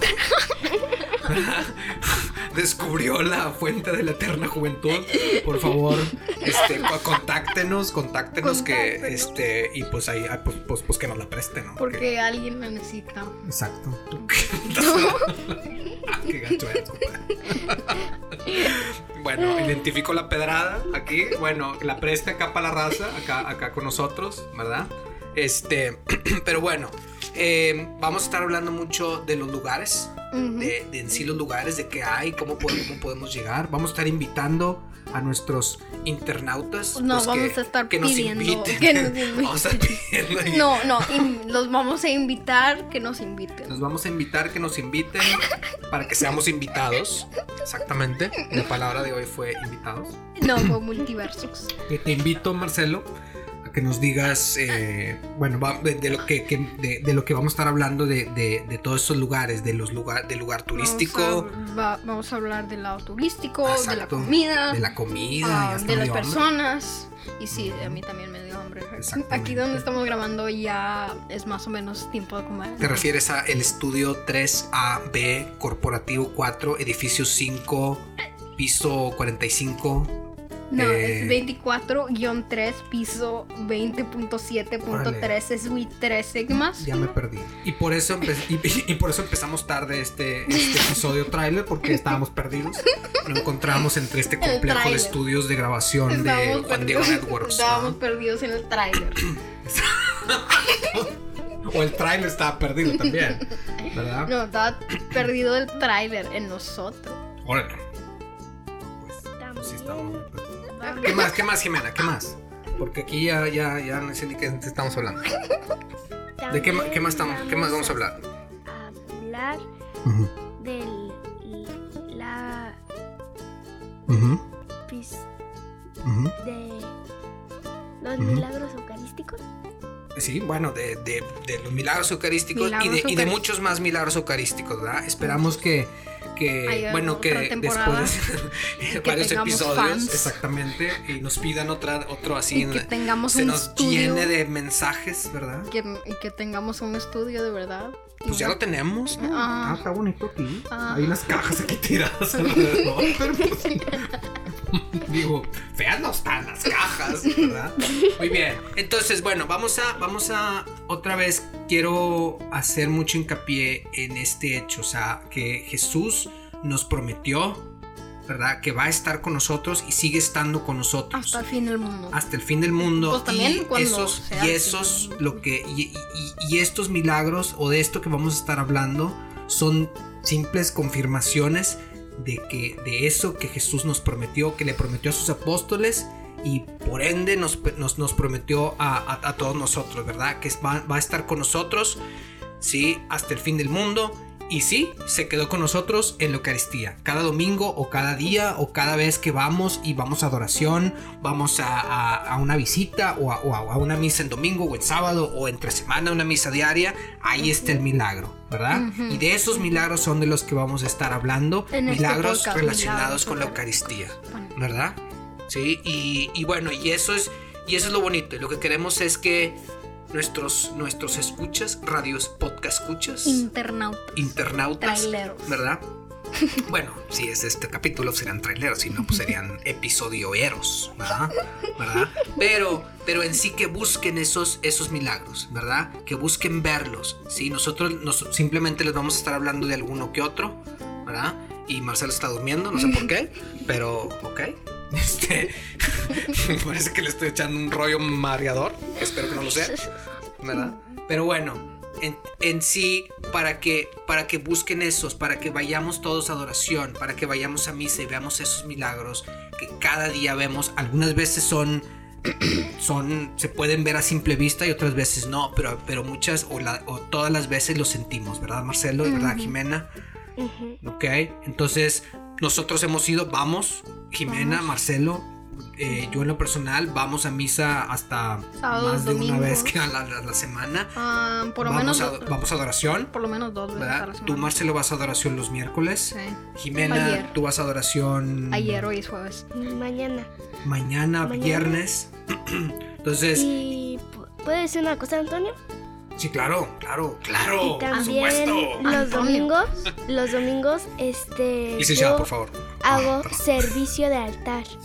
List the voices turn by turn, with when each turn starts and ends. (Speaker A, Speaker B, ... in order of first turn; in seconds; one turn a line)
Speaker A: 0.3-0.9
Speaker B: 1.2-12.0
Speaker A: 8.4-9.4
Speaker A: 11.8-13.3
Speaker B: 13.4-41.3
Speaker A: 14.4-15.3
Speaker A: 30.3-30.8
Speaker A: 36.9-39.8
Speaker A: 40.5-43.9
Speaker B: 43.7-50.7
Speaker A: 50.4-51.7
Speaker B: 51.9-53.1
Speaker B: 53.6-61.5
Speaker A: 60.7-73.1
Speaker B: 63.6-66.4
Speaker B: 67.5-68.0
Speaker B: 69.0-69.8
Speaker B: 72.8-80.1
Speaker A: 80.7-86.9
Speaker B: 80.7-81.4
Speaker B: 84.9-85.4
Speaker B: 86.7-98.0
Speaker A: 90.5-90.8
Speaker A: 94.4-95.2
Speaker A: 96.1-99.4
Speaker B: 99.4-101.1
Speaker B: 101.6-104.3
Speaker A: 104.2-107.2
Speaker B: 107.4-107.8
Speaker B: 108.8-115.2
Speaker C: 109.4-111.3
Speaker A: 110.8-111.2
Speaker C: 116.4-118.1
Speaker B: 116.5-118.2
Speaker C: 118.7-119.6
Speaker B: 120.0-120.3
Speaker C: 120.6-122.8
Speaker B: 124.1-124.4
Speaker C: 124.9-125.2
Speaker B: 126.0-126.3
Speaker C: 126.4-126.9
Speaker C: 128.0-129.4
Speaker B: 128.2-128.4
Speaker B: 130.1-145.7
Speaker A: 132.5-133.5
Speaker A: 135.2-135.6
Speaker A: 136.7-138.2
Speaker A: 138.9-140.4
Speaker A: 142.5-144.3
Speaker A: 145.7-148.6
Speaker B: 148.2-167.7
Speaker A: 149.1-149.8
Speaker A: 150.7-151.2
Speaker B: 168.3-171.4
Speaker A: 171.1-172.2
Speaker B: 172.1-192.0
Speaker A: 172.8-175.3
Speaker B: 192.6-219.6
Speaker C: 207.4-207.8
Speaker A: 208.7-209.3
Speaker A: 211.7-214.5
Speaker B: 220.1-223.4
Speaker A: 223.2-225.6
Speaker B: 224.2-225.8
Speaker B: 226.6-249.8
Speaker B: 250.4-261.9
Speaker B: 262.5-269.9
Speaker A: 269.0-269.6
Speaker C: 270.4-270.8
Speaker B: 270.8-281.0
Speaker A: 274.2-274.7
Speaker A: 278.6-279.9
Speaker A: 280.9-282.4
Speaker B: 281.6-283.1
Speaker A: 283.1-284.6
Speaker B: 283.7-288.9
Speaker A: 286.1-287.3
Speaker A: 288.5-289.5
Speaker C: 289.5-290.3
Speaker B: 290.6-293.5
Speaker C: 291.2-291.8
Speaker C: 293.3-295.6
Speaker B: 296.2-298.9
Speaker C: 297.6-302.3
Speaker A: 297.9-299.5
Speaker B: 301.8-303.4
Speaker C: 302.8-304.7